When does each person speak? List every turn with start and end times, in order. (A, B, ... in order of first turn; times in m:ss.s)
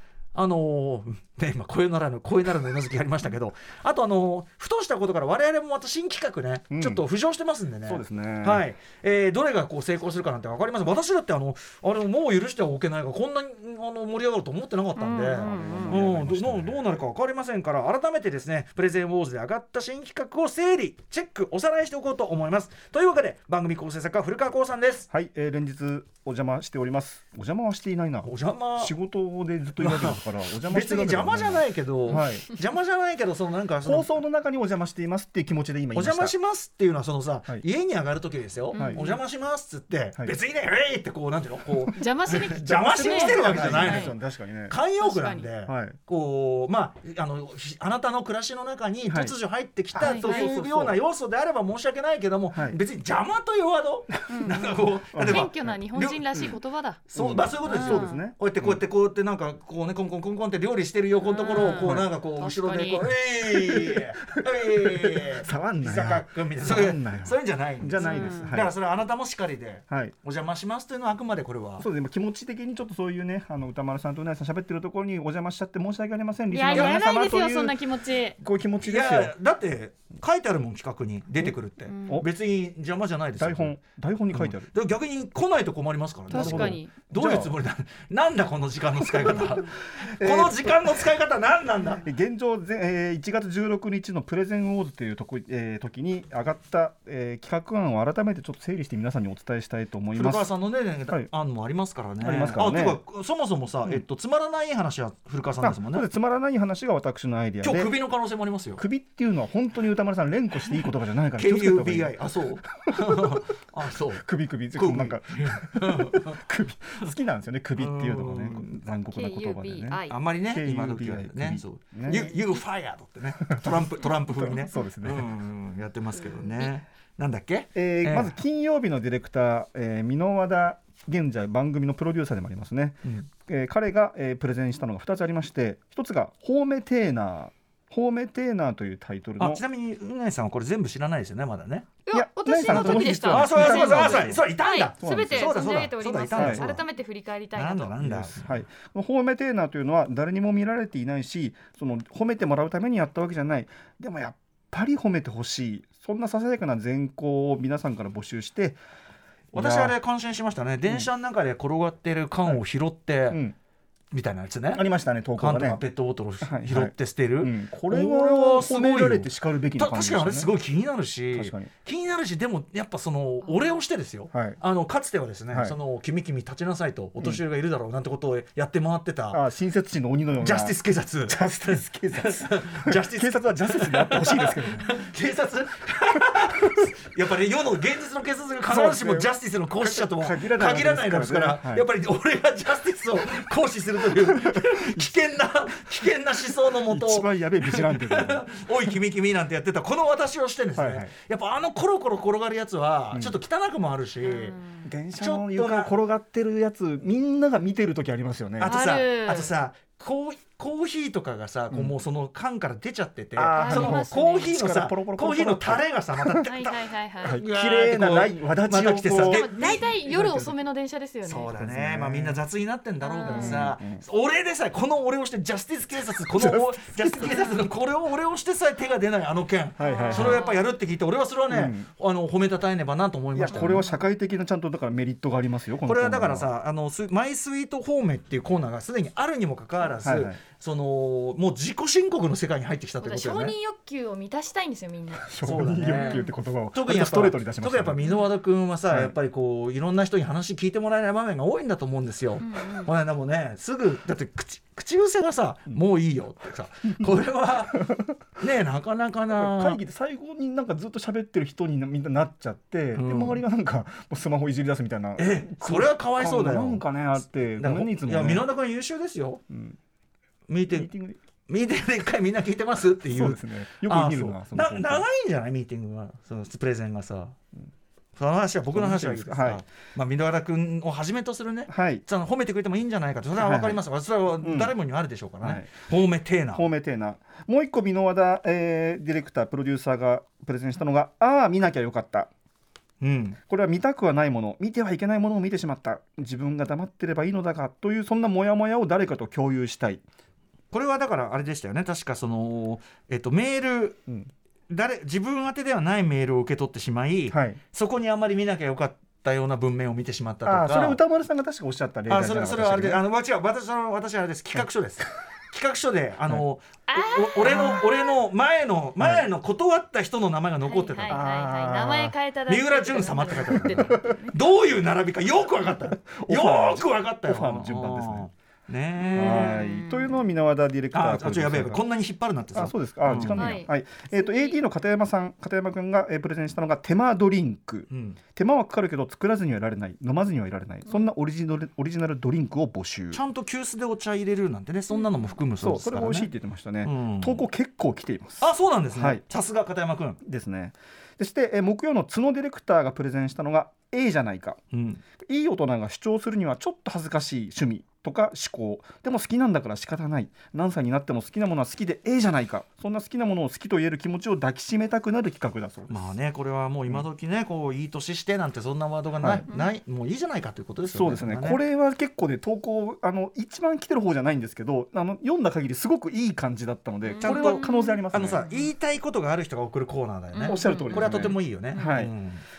0:00.3-0:25.1 A
0:06.7-0:07.0 B
0:07.9-0:08.7 B
0:15.0-0:16.0 C
0:15.3-0:16.9 B
0:25.1-0:32.5 B
0:28.2-0:28.9 A
0:29.8-0:34.1 A
0:33.8-0:36.4 B
0:35.9-0:56.5 A
0:38.7-0:39.2 C
0:38.7-0:39.2 B
0:42.0-0:44.1 C
0:42.5-0:44.8 B
0:45.0-0:45.5 C
0:45.6-0:46.0 B
0:49.0-0:49.4 B
0:49.9-0:51.0 B
0:50.0-0:50.4 C
0:52.5-0:52.8 B
0:54.3-0:57.0 C
0:55.1-0:55.6 B
0:57.1-1:11.9 A
0:57.2-0:58.8 B
0:57.7-0:58.2 C
1:01.2-1:03.1 C
1:01.6-1:02.1 B
1:03.5-1:04.1 B
1:04.9-1:08.8 B
1:08.0-1:08.5 C
1:11.8-1:17.8 B
1:16.5-1:18.4 C
1:16.7-1:17.0 A
1:18.4-1:19.3 B
1:18.8-1:23.8 A
1:21.9-1:22.2 C
1:23.4-1:24.7 B
1:24.3-1:32.1 A
1:26.3-1:26.9 C
1:26.3-1:27.6 B
1:29.2-1:29.5 B
1:30.2-1:31.1 B
1:32.0-1:40.5 B
1:40.1-1:46.1 A
1:42.2-1:43.0 B
1:45.6-1:48.0 B
1:47.6-1:48.8 A
1:48.8-1:52.2 B
1:50.7-1:56.4 A
1:52.8-1:53.4 B
1:54.2-2:02.4 B
1:57.8-1:58.8 A
1:59.1-2:00.2 C
2:00.1-2:08.4 A
2:04.3-2:05.3 B
2:07.8-2:19.6 B
2:19.4-2:21.9 A
2:22.1-2:28.0 C
2:22.1-2:24.5 B
2:22.6-2:26.8 A
2:25.0-2:25.7 B
2:26.4-2:26.7 B
2:27.6-2:28.6 A
2:28.0-2:38.8 B
2:39.5-2:43.4 A
2:39.5-2:40.0 B
2:43.3-2:43.6 B
2:44.1-2:59.4 A
2:44.7-2:45.8 B
2:46.4-2:50.5 B
2:51.3-2:51.7 B
2:54.3-2:54.6 B
2:55.5-2:55.8 B
2:59.3-3:05.0 B
3:00.4-3:01.5 A
3:02.1-3:24.6 A
3:08.7-3:11.9 B
3:14.2-3:15.2 B
3:16.9-3:18.5 B
3:20.8-3:21.1 B
3:23.1-3:23.4 B
3:24.2-3:24.9 C
3:24.8-3:28.8 B
3:25.2-3:25.9 A
3:28.6-3:39.9 A
3:28.7-3:29.6 C
3:31.7-3:32.0 B
3:33.4-3:36.5 B
3:33.5-3:34.6 C
3:36.4-3:37.4 C
3:37.2-3:40.6 B
3:39.1-3:41.5 C
3:41.2-3:53.8 A
3:41.5-3:42.4 B
3:43.0-3:43.7 C
3:43.2-3:44.0 B
3:46.4-3:47.4 B
3:49.8-3:50.4 B
3:49.8-3:50.7 C
3:51.5-3:51.9 B
3:53.4-3:56.5 B
3:53.5-3:53.9 C
3:55.8-4:03.5 A
4:00.0-4:00.4 B
4:03.0-4:06.3 C
4:05.2-4:08.0 B
4:05.4-4:19.8 A
4:08.9-4:09.2 B
4:12.4-4:12.9 C
4:17.7-4:18.2 B
4:19.3-4:28.5 B
4:23.0-4:23.4 A
4:25.2-4:29.4 A
4:29.5-4:29.8 B
4:30.5-4:30.9 A
4:30.7-4:31.2 B
4:31.5-4:37.4 A
4:33.1-4:35.1 B
4:38.2-4:46.7 A
4:38.7-4:39.6 B
4:41.7-4:42.0 B
4:43.4-4:43.8 B
4:44.4-4:44.7 B
4:45.4-4:45.7 B
4:46.5-4:52.3 B
4:53.0-4:53.4 A
4:53.5-5:00.0 B
5:00.7-5:04.0 A
5:04.7-5:11.0 A
5:07.3-5:07.6 B
5:10.4-5:13.0 B
5:12.1-5:21.2 A
5:16.9-5:18.1 C
5:19.0-5:19.3 B
5:20.6-5:24.4 C
5:21.1-5:22.2 B
5:22.5-5:29.6 A
5:23.6-5:24.1 B
5:26.1-5:28.3 B
5:29.0-5:30.2 C
5:29.1-5:31.9 B
5:30.9-5:33.5 A
5:32.5-5:43.2 B
5:33.3-5:34.6 C
5:37.9-5:38.2 A
5:43.1-5:46.3 A
5:45.0-5:45.3 C
5:45.6-5:49.2 B
5:46.8-5:47.4 A
5:48.4-5:50.2 A
5:50.2-5:54.6 B
5:54.7-5:55.0 A
5:55.2-6:06.2 B
6:05.9-6:11.6 A
6:09.2-6:09.5 B
6:09.5-6:09.7 C
6:10.9-6:18.4 B
6:17.0-6:18.7 C
6:17.2-6:22.4 A
6:20.3-6:22.0 C
6:20.4-6:22.1 B